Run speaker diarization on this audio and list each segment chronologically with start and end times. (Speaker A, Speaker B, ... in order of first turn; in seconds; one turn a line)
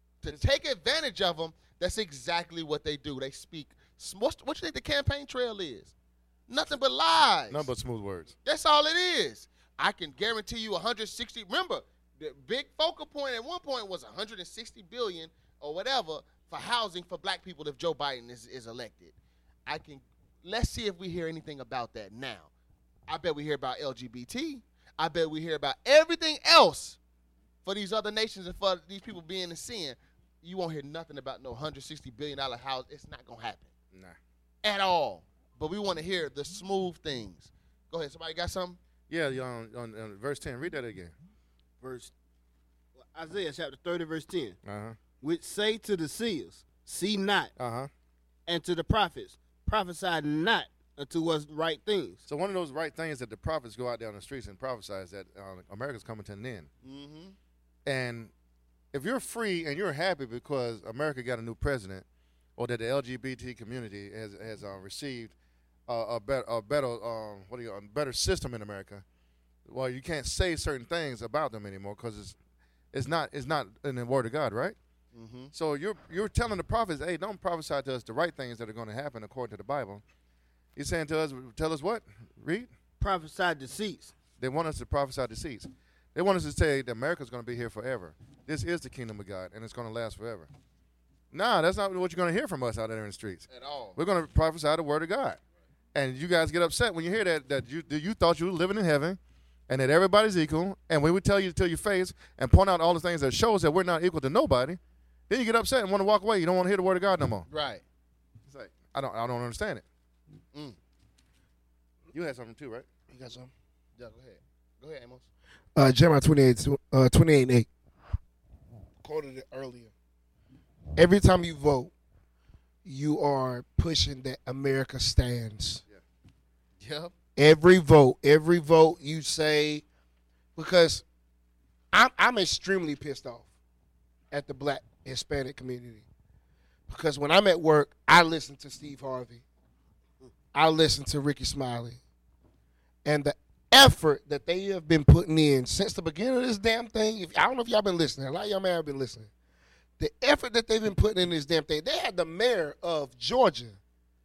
Speaker A: 0.2-5.9
Speaker A: 6.5-7.7
Speaker B: 7.5-8.3
Speaker A: 8.4-19.1
Speaker A: 19.6-22.5
Speaker A: 23.1-27.0
Speaker A: 27.6-33.7
Speaker A: 34.6-38.8
Speaker B: 39.1-41.1
Speaker C: 41.8-42.1
Speaker C: 43.0-44.6
Speaker B: 44.6-45.0
Speaker C: 45.2-47.5
Speaker B: 47.6-47.9
Speaker C: 48.5-52.2
Speaker B: 52.3-56.7
Speaker A: 56.8-57.4
Speaker B: 57.9-58.3
Speaker B: 58.9-62.0
Speaker B: 62.6-65.3
Speaker B: 65.9-69.0
Speaker B: 69.7-72.3
Speaker B: 72.9-74.8
Speaker A: 75.1-75.5
Speaker B: 75.5-80.0
Speaker B: 80.8-82.7
Speaker C: 83.0-84.1
Speaker B: 84.4-90.5
Speaker B: 91.3-95.4
Speaker A: 93.5-94.0
Speaker B: 95.9-99.2
Speaker B: 99.7-107.5
Speaker A: 107.5-107.8
Speaker B: 108.5-109.8
Speaker B: 112.1-112.8
Speaker D: 113.1-113.5
Speaker A: 114.0-115.3
Speaker D: 115.7-117.7
Speaker D: 119.0-119.9
Speaker D: 121.0-121.9
Speaker D: 122.8-125.8
Speaker A: 126.8-127.1
Speaker D: 127.3-129.8
Speaker D: 130.6-131.0
Speaker D: 131.9-133.5
Speaker D: 134.3-136.0
Speaker D: 136.9-139.4
Speaker D: 140.5-142.0
Speaker D: 143.0-149.3
Speaker D: 150.0-153.8